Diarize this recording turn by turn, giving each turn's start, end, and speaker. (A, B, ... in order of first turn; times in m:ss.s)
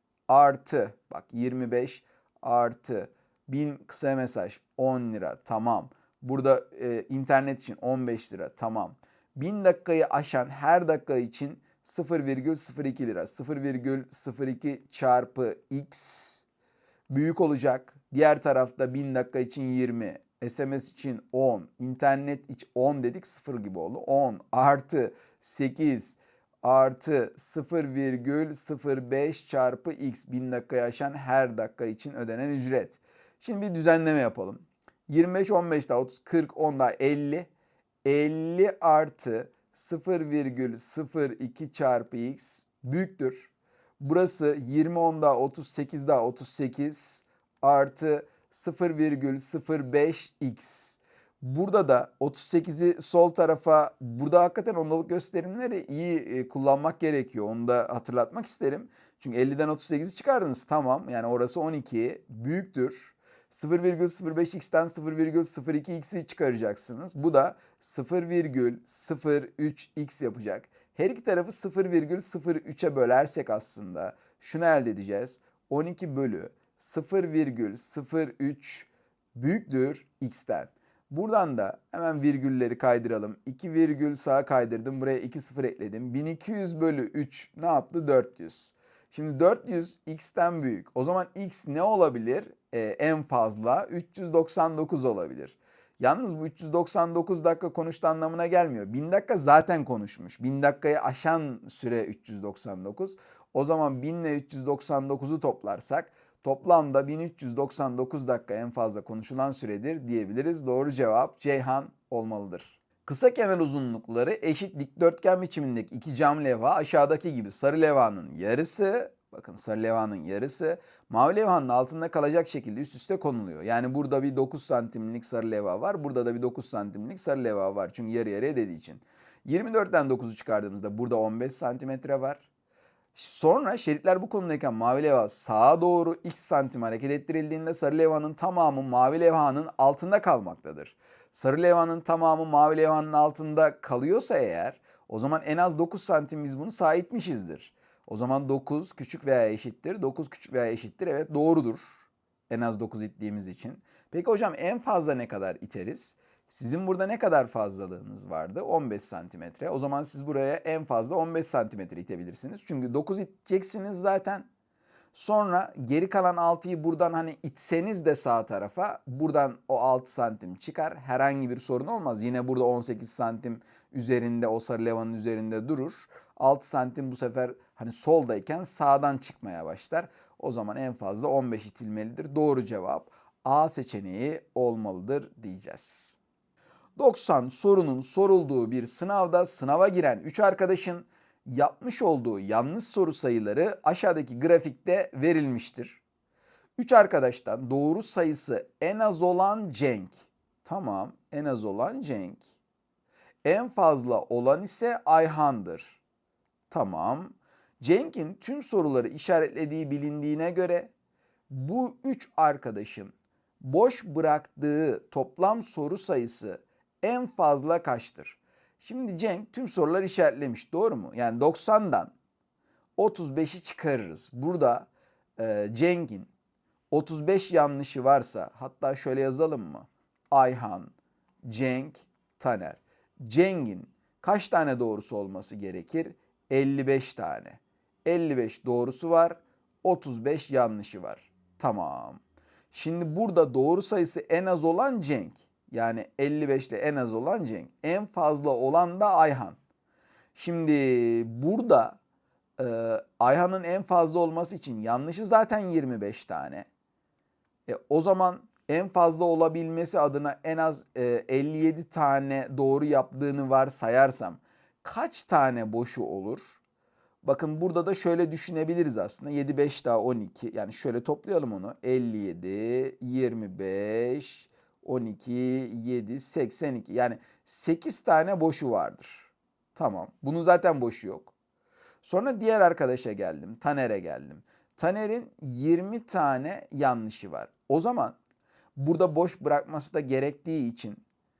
0:00.3-0:16.4 A
0:17.1-0:37.5 A
0:38.0-2:12.4 A
2:13.1-2:44.5 A
2:45.1-3:06.2 A
3:07.0-3:16.0 A
3:16.8-3:22.6 A
3:23.4-3:26.0 A
3:26.7-3:30.9 A
3:31.5-3:42.1 A
3:43.0-3:46.3 A
3:46.9-3:50.9 A
3:51.4-4:02.2 A
4:02.7-4:09.6 A
4:10.3-4:12.0 A
4:12.6-4:16.7 A
4:17.7-4:26.6 A
4:27.2-4:41.3 A
4:42.0-4:48.2 A
4:48.8-4:51.0 A